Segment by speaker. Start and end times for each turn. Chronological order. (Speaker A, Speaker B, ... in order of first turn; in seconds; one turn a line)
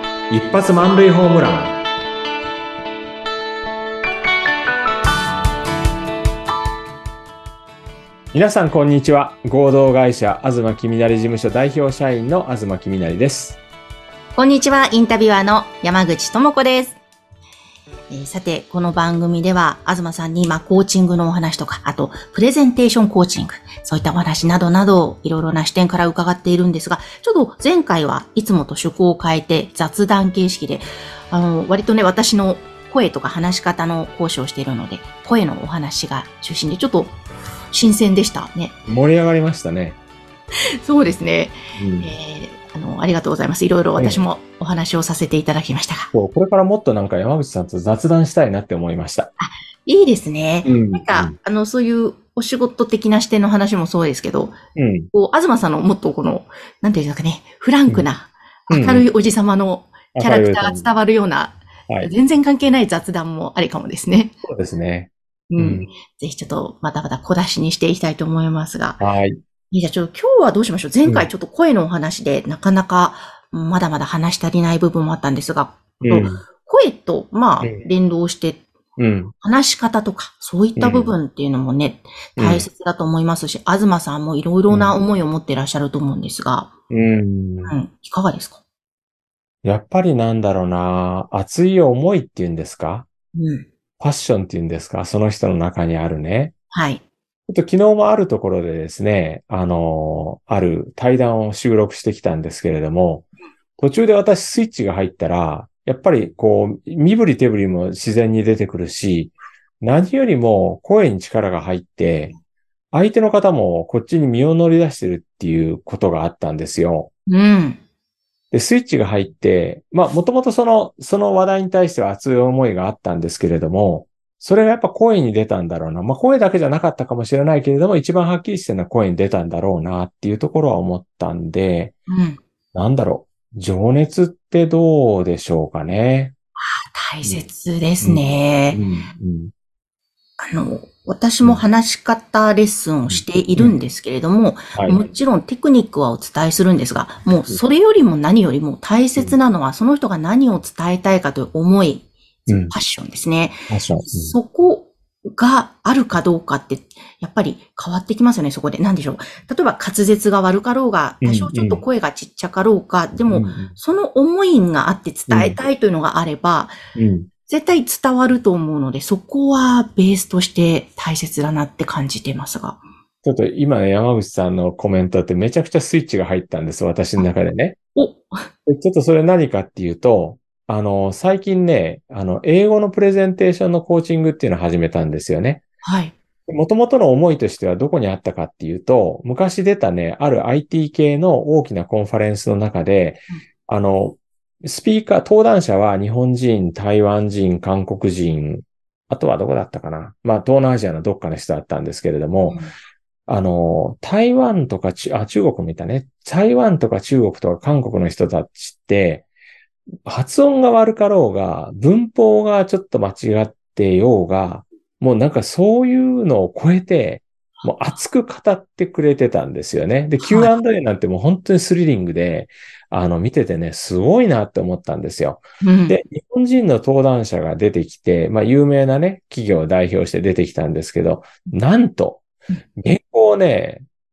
Speaker A: 0.3-1.8
Speaker A: 8.3-13.6
Speaker B: 14.3-17.0
Speaker B: 18.1-37.2
Speaker B: 37.7-38.8
Speaker A: 38.9-40.0
Speaker B: 40.8-46.1
Speaker A: 41.8-42.1
Speaker A: 44.0-44.2
Speaker A: 46.1-49.3
Speaker B: 49.4-54.6
Speaker A: 50.6-51.4
Speaker A: 54.8-55.1
Speaker B: 55.1-64.3
Speaker A: 58.7-59.1
Speaker A: 60.1-60.9
Speaker A: 64.5-65.9
Speaker B: 65.5-69.0
Speaker A: 69.0-69.4
Speaker B: 69.7-78.7
Speaker A: 76.0-76.4
Speaker A: 79.0-79.3
Speaker B: 79.4-86.7
Speaker A: 80.8-81.2
Speaker A: 82.4-82.7
Speaker A: 84.7-85.0
Speaker A: 86.9-87.8
Speaker B: 87.7-88.6
Speaker A: 89.6-93.1
Speaker B: 93.3-93.7
Speaker A: 94.0-96.5
Speaker B: 96.7-97.0
Speaker A: 97.5-112.3
Speaker A: 112.9-117.1
Speaker B: 117.3-117.8
Speaker A: 118.5-132.0
Speaker B: 132.1-132.4
Speaker A: 132.7-136.3
Speaker B: 136.6-138.8
Speaker A: 138.0-139.5
Speaker B: 140.4-166.8
Speaker A: 143.1-143.8
Speaker A: 144.8-145.1
Speaker A: 152.5-152.8
Speaker A: 153.7-154.4
Speaker A: 161.2-161.8
Speaker A: 163.3-163.8
Speaker A: 165.3-165.6
Speaker A: 166.9-167.3
Speaker B: 167.5-172.8
Speaker A: 173.2-177.8
Speaker B: 177.9-178.5
Speaker A: 178.7-185.6
Speaker B: 185.8-186.1
Speaker A: 186.5-202.6
Speaker B: 202.5-202.7
Speaker A: 203.3-209.3
Speaker A: 210.1-232.2
Speaker B: 220.2-220.5
Speaker B: 225.6-226.0
Speaker A: 232.8-233.8